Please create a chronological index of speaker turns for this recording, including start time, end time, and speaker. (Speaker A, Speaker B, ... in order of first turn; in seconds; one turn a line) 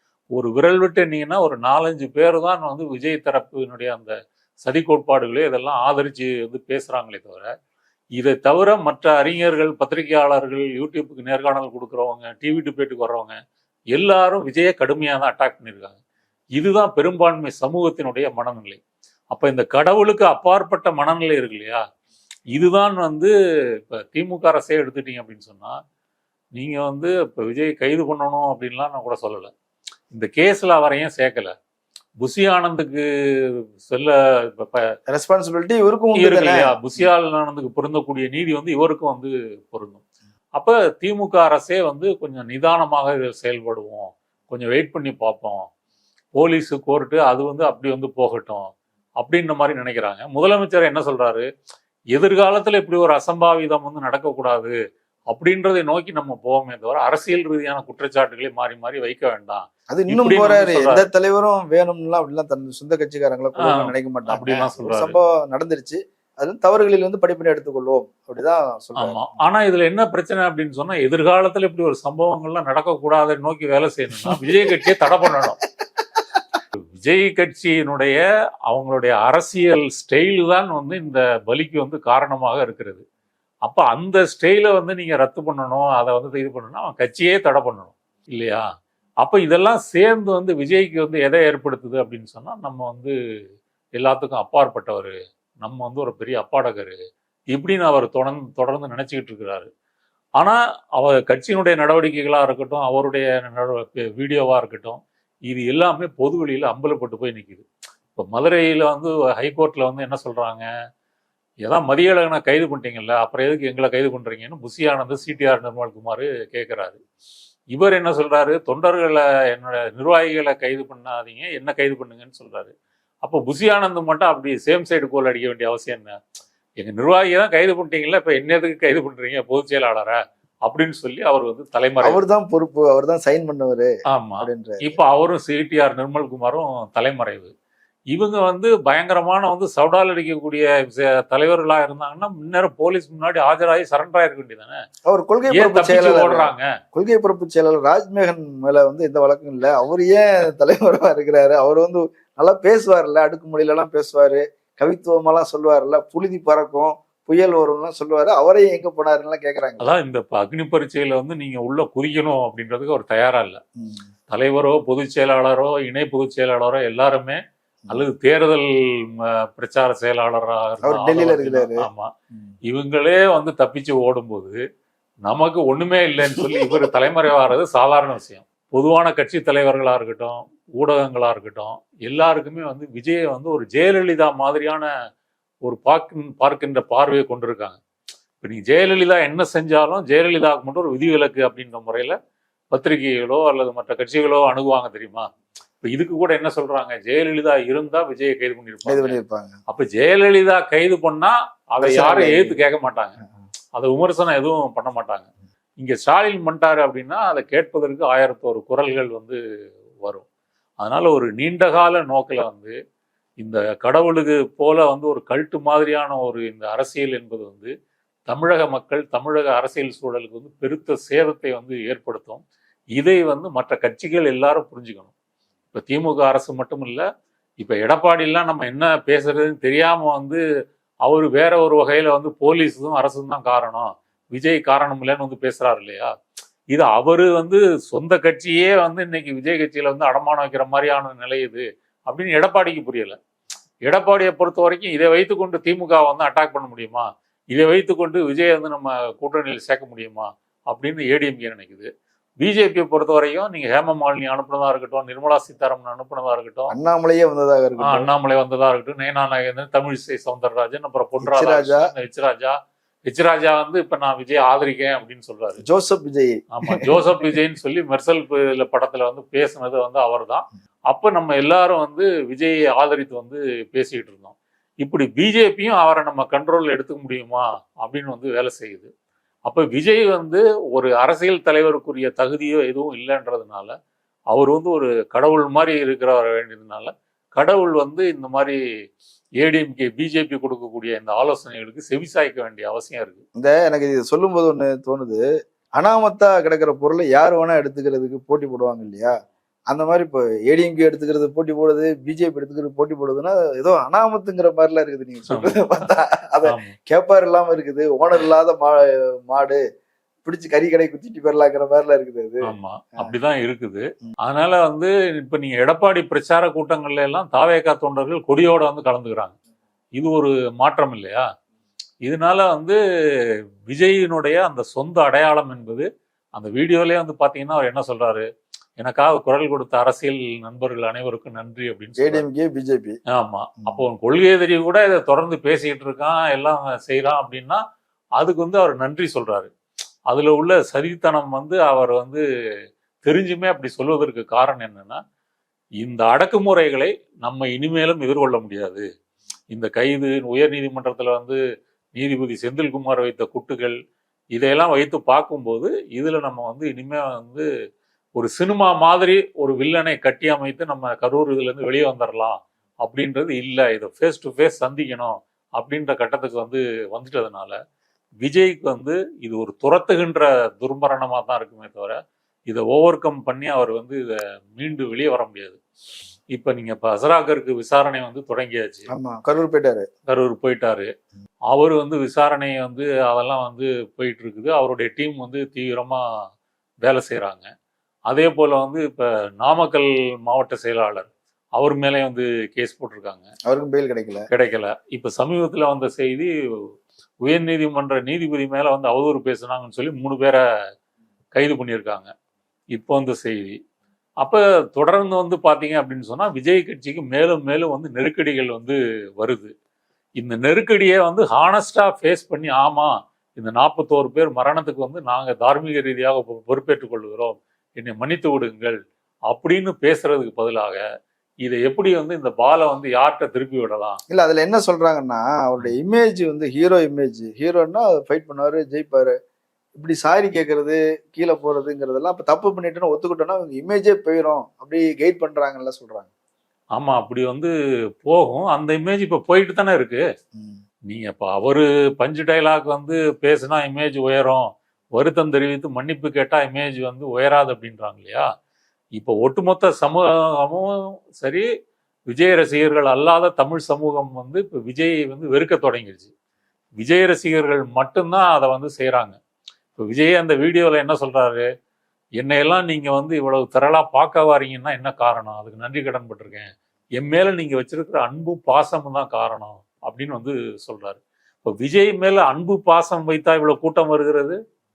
Speaker A: 0.3-7.5
Speaker A: 8.2-13.4
Speaker A: 13.9-16.0
Speaker A: 16.6-18.8
Speaker A: 19.3-21.8
Speaker A: 22.5-23.3
Speaker A: 23.9-25.8
Speaker A: 26.5-29.5
Speaker A: 30.1-31.5
Speaker A: 32.2-34.9
Speaker B: 35.1-37.0
Speaker A: 36.2-40.0
Speaker A: 40.5-45.7
Speaker A: 46.3-51.4
Speaker A: 52.1-54.7
Speaker A: 55.3-61.0
Speaker B: 59.9-69.2
Speaker A: 63.6-65.2
Speaker A: 69.0-75.6
Speaker B: 74.2-75.4
Speaker A: 77.0-83.0
Speaker A: 83.7-88.6
Speaker A: 89.2-93.1
Speaker A: 94.0-96.9
Speaker A: 97.5-99.7
Speaker A: 100.4-110.6
Speaker A: 111.6-117.0
Speaker A: 117.7-122.7
Speaker A: 123.2-126.2
Speaker A: 126.8-132.2
Speaker B: 132.0-135.0
Speaker A: 134.1-137.5
Speaker A: 138.1-144.8
Speaker B: 145.1-159.9
Speaker A: 145.5-146.6
Speaker A: 159.8-163.6
Speaker B: 163.8-164.1
Speaker A: 164.3-172.1
Speaker B: 170.8-172.5
Speaker A: 172.7-174.6
Speaker A: 175.2-184.9
Speaker B: 176.4-176.9
Speaker A: 185.6-187.8
Speaker A: 188.4-192.2
Speaker A: 192.7-195.3
Speaker A: 195.8-199.2
Speaker B: 198.8-199.6
Speaker A: 199.7-203.2
Speaker B: 201.8-202.6
Speaker A: 203.8-205.3
Speaker A: 205.8-209.4
Speaker A: 210.8-212.7
Speaker A: 213.4-217.7
Speaker A: 218.3-222.4
Speaker A: 222.9-225.1
Speaker A: 225.7-227.0
Speaker A: 227.6-230.4
Speaker A: 231.0-236.1
Speaker A: 236.7-243.2
Speaker A: 243.8-251.9
Speaker A: 252.4-256.7
Speaker B: 256.7-258.1
Speaker A: 257.8-265.6
Speaker B: 261.2-261.9
Speaker B: 265.6-267.2
Speaker A: 266.5-278.9
Speaker A: 279.5-283.7
Speaker A: 284.3-288.6
Speaker A: 289.4-293.2
Speaker B: 293.4-295.2
Speaker B: 295.8-299.1
Speaker B: 299.7-309.6
Speaker A: 305.3-305.6
Speaker A: 306.4-306.7
Speaker B: 310.2-312.4
Speaker A: 312.4-319.4
Speaker A: 319.9-321.2
Speaker A: 322.0-322.8
Speaker A: 323.7-328.2
Speaker A: 328.8-332.2
Speaker B: 332.0-333.0
Speaker A: 333.1-337.6
Speaker A: 338.2-339.5
Speaker A: 340.1-342.2
Speaker A: 343.0-345.0
Speaker A: 345.8-348.9
Speaker A: 349.5-351.4
Speaker A: 351.9-353.8
Speaker A: 354.3-357.4
Speaker A: 358.1-367.6
Speaker A: 368.2-375.6
Speaker A: 376.3-378.9
Speaker B: 378.9-379.9
Speaker A: 380.1-380.9
Speaker A: 381.5-386.0
Speaker A: 386.8-387.5
Speaker A: 388.1-393.3
Speaker B: 393.4-394.3
Speaker A: 394.3-396.3
Speaker A: 397.2-400.4
Speaker A: 401.3-402.1
Speaker A: 402.7-403.6
Speaker A: 404.2-409.5
Speaker A: 410.2-418.8
Speaker A: 419.3-420.8
Speaker A: 421.4-424.0
Speaker B: 424.1-429.1
Speaker B: 429.8-436.1
Speaker A: 436.7-437.5
Speaker A: 438.0-440.0
Speaker B: 440.3-440.6
Speaker A: 440.9-448.2
Speaker A: 448.9-450.7
Speaker A: 451.2-451.4
Speaker A: 452.1-456.1
Speaker A: 456.8-459.2
Speaker A: 459.8-461.4
Speaker A: 462.2-474.4